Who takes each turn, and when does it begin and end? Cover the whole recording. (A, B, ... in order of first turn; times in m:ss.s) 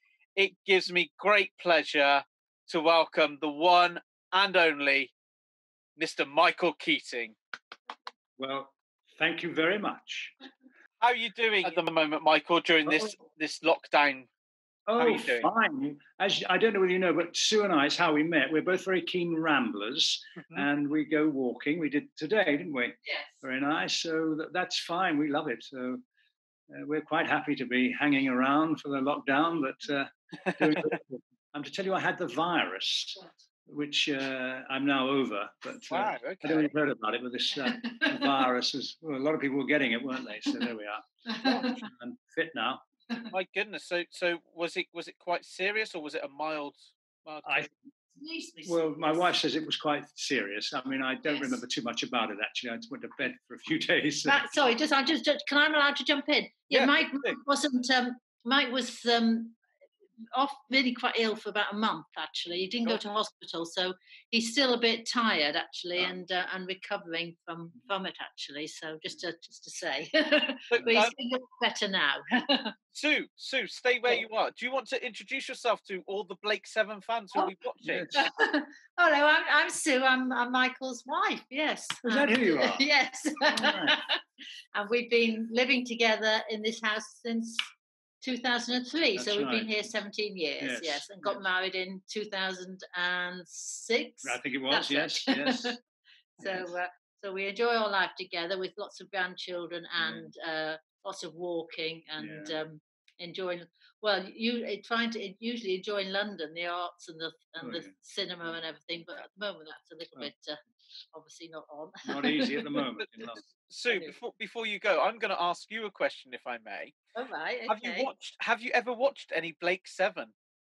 0:00.4-0:05.1 A
0:06.0-0:07.4 A
0:08.4-0:10.3 B
0:11.0-0:14.3 A
0:12.8-0:13.1 B
0:14.9-0:26.0 B
0:15.0-0:15.5 A
0:26.7-0:42.8 B
0:30.6-0:30.9 A
0:35.9-0:36.7 A
0:37.7-0:38.3 C
0:41.3-0:41.8 C
0:43.3-0:47.7 A
0:47.4-0:47.7 B
0:48.2-0:49.4 C
0:48.6-0:54.5 B
0:51.3-0:51.6 C
0:54.2-0:59.6 C
0:56.7-0:57.4 A
1:00.3-1:12.7 C
1:10.7-1:11.1 A
1:12.9-1:18.1 A
1:17.8-1:18.3 B
1:18.1-1:24.2 C
1:22.1-1:22.9 B
1:23.4-1:24.0 B
1:24.7-1:27.6 C
1:28.2-1:35.8 C
1:29.2-1:29.9 B
1:30.6-1:31.4 B
1:34.2-1:35.8 B
1:36.4-1:53.3 C
1:36.4-1:36.7 B
1:40.0-1:40.3 B
1:42.2-1:42.6 B
1:47.6-1:47.9 B
1:52.0-1:53.4 B
1:53.0-1:56.9 A
1:53.9-1:54.2 C
1:57.1-1:58.1 C
1:57.7-2:00.3 A